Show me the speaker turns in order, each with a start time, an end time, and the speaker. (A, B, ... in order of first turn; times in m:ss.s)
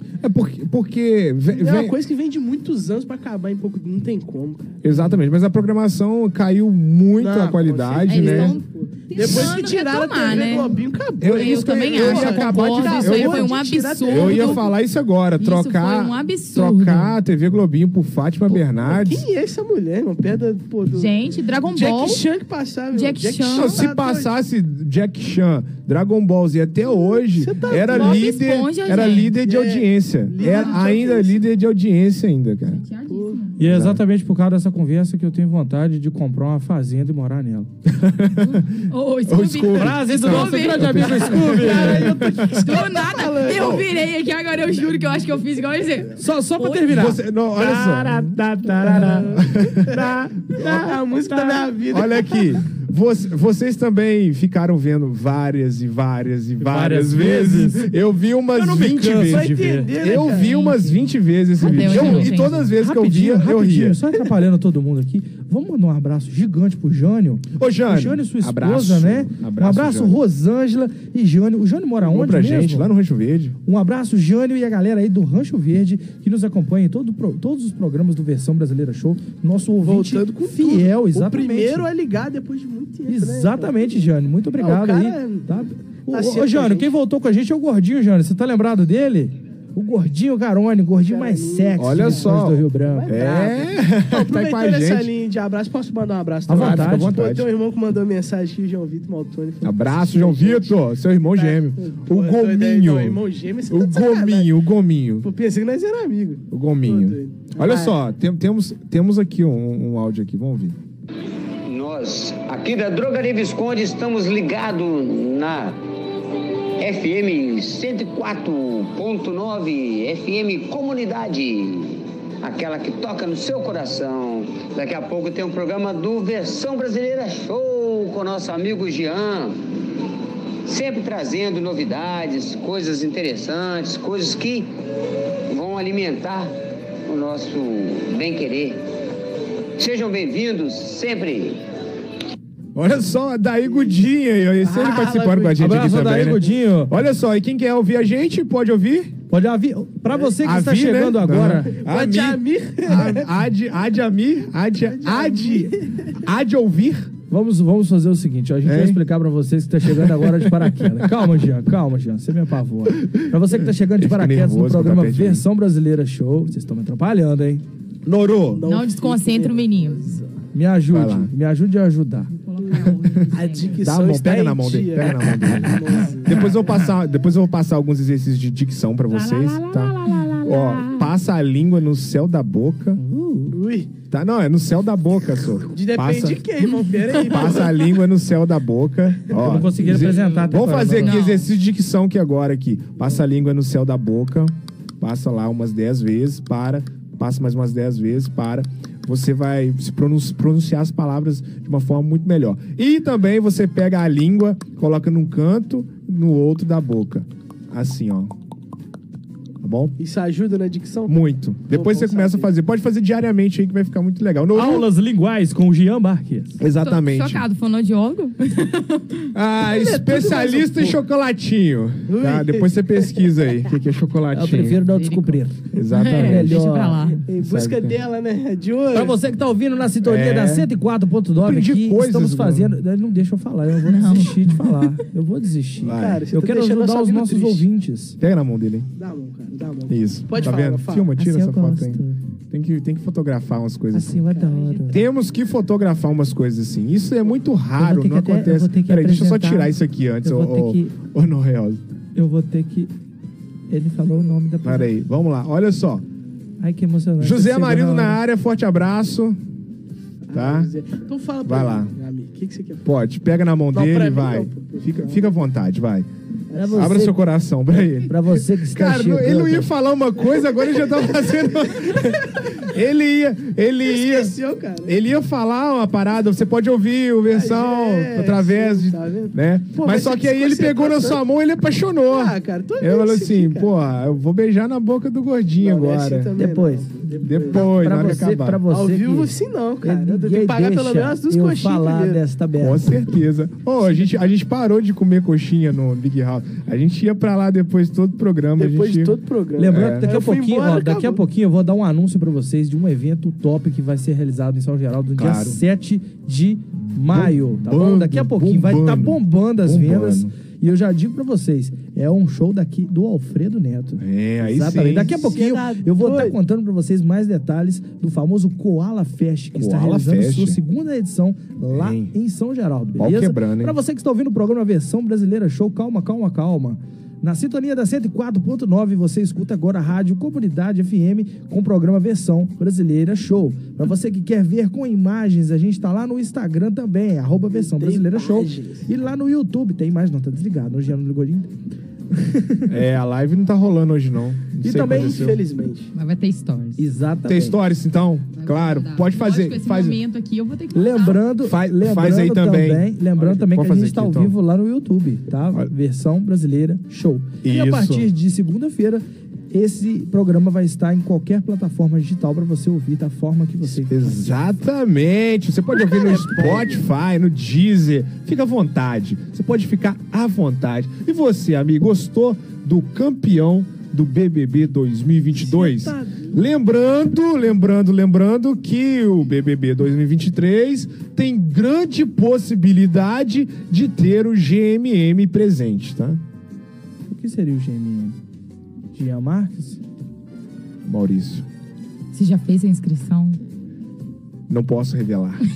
0:00.2-0:02.0 A
0:01.5-0:04.8 B
0:04.8-0:08.6 A
0:07.2-0:14.7 B
0:08.1-0:14.6 C
0:09.2-0:09.5 A
0:11.2-0:13.5 A
0:14.0-0:19.2 A
0:15.4-0:17.2 C
0:18.5-0:21.1 B
0:20.9-0:22.2 C
0:21.7-0:24.3 B
0:22.9-0:23.8 C
0:23.5-0:32.8 A
0:26.8-0:28.3 B
0:27.7-0:29.3 C
0:29.4-0:31.4 B
0:30.4-0:31.0 C
0:32.7-0:33.6 C
0:33.1-0:33.4 B
0:33.6-0:37.7 D
0:33.6-0:34.0 A
0:37.9-0:38.6 A
0:38.4-0:47.1 C
0:39.2-0:42.6 A
0:39.7-0:42.1 D
0:41.4-0:43.8 B
0:43.5-0:43.8 A
0:46.2-0:48.3 D
0:46.9-0:51.0 A
0:48.8-0:52.6 B
0:51.2-0:51.6 D
0:51.9-1:04.0 A
0:56.6-0:57.9 D
0:58.5-0:59.9 D
0:59.2-1:00.6 B
1:00.1-1:02.6 C
1:01.6-1:12.9 D
1:07.5-1:10.2 A
1:12.0-1:13.6 A
1:13.6-1:21.9 D
1:19.8-1:24.0 B
1:23.1-1:33.1 D
1:24.6-1:25.5 B
1:26.1-1:26.9 B
1:31.0-1:40.8 B
1:31.8-1:35.1 A
1:36.5-1:37.2 D
1:36.5-1:37.5 A
1:39.6-1:45.3 A
1:41.3-1:44.5 B
1:45.2-1:48.0 B
1:46.5-1:50.8 A
1:51.6-1:55.8 E
1:56.8-2:09.6 E
2:10.6-2:14.7 E
2:15.5-2:16.5 E
2:17.0-2:18.8 E
2:19.8-2:21.6 E
2:22.7-2:29.1 A
2:24.6-2:25.8 B
2:25.6-2:26.9 D
2:29.3-2:31.7 D
2:30.4-2:37.1 A
2:31.8-2:33.3 B
2:34.8-2:36.2 B
2:37.3-2:47.6 D
2:38.6-2:39.0 A
2:39.8-2:41.3 A
2:43.0-2:45.4 A
2:48.0-2:48.6 A
2:48.5-2:50.3 B
2:48.7-2:50.2 C
2:50.5-2:52.3 D
2:50.9-2:51.3 A
2:52.3-2:53.8 C
2:52.6-2:56.6 B
2:52.9-2:53.2 A
2:53.8-3:03.0 A
2:59.2-3:01.0 D
3:03.0-3:03.6 D
3:03.5-3:03.9 B
3:04.1-3:06.4 A
3:05.7-3:07.9 B
3:07.2-3:28.3 A
3:09.3-3:11.2 D
3:10.9-3:11.5 C
3:29.6-3:30.0 A
3:30.0-3:31.2 B
3:31.1-3:34.9 A
3:31.7-3:32.5 B
3:34.5-3:36.6 D
3:36.6-3:37.4 A
3:36.8-3:39.3 C
3:39.3-3:44.8 A
3:39.7-3:41.0 B
3:42.1-3:43.3 B
3:44.3-3:45.6 D
3:44.9-3:47.2 C
3:45.7-3:46.6 A
3:46.1-3:47.0 D
3:47.0-3:49.2 B
3:47.4-3:48.0 A
3:48.9-3:58.2 D
3:50.0-3:50.7 A
3:51.4-3:52.8 A
3:53.8-3:55.0 C
3:55.8-3:56.2 A
3:55.9-3:57.6 B
3:58.2-3:58.9 A
3:59.0-4:01.1 B
3:59.9-4:04.3 A
4:01.1-4:02.2 D
4:03.9-4:05.0 D
4:04.3-4:05.0 B
4:04.9-4:11.8 A
4:07.8-4:11.0 D
4:12.2-4:12.9 D
4:13.7-4:14.9 D
4:14.6-4:16.0 A
4:16.6-4:18.2 D
4:17.2-4:19.4 A
4:20.3-4:22.9 B
4:20.3-4:20.7 A
4:21.4-4:21.9 A
4:22.8-4:26.1 A
4:23.7-4:25.3 B
4:26.5-4:26.8 B
4:26.5-4:27.2 D
4:26.7-4:46.3 A
4:27.8-4:29.7 D
4:30.6-4:32.6 B
4:33.8-4:35.0 B
4:37.3-4:41.2 B
4:42.1-4:43.7 B
4:45.6-4:52.2 B
4:46.4-4:53.1 D
4:47.2-4:48.6 A
4:52.6-5:00.1 A
4:58.6-5:01.2 B
4:59.6-5:41.5 D
5:05.2-5:05.6 A
5:06.9-5:10.3 A
5:14.0-5:15.2 A
5:15.0-5:16.4 B
5:19.5-5:20.6 A
5:21.7-5:22.1 A
5:23.0-5:23.8 A
5:37.5-5:38.9 B
5:42.1-5:42.7 D
5:42.7-5:45.4 A
5:44.6-5:45.2 D
5:44.8-5:45.9 B
5:45.9-5:46.8 C
5:46.8-5:47.6 D
5:47.2-5:50.0 A
5:48.3-5:51.2 C
5:50.7-6:04.3 D
5:51.4-5:54.4 A
5:57.4-5:58.1 A
6:03.9-6:26.2 A
6:05.7-6:06.8 B
6:15.4-6:16.4 B
6:27.1-6:28.2 D
6:28.9-6:29.8 D
6:30.8-6:31.4 A
6:32.1-6:33.4 C
6:34.5-6:35.4 A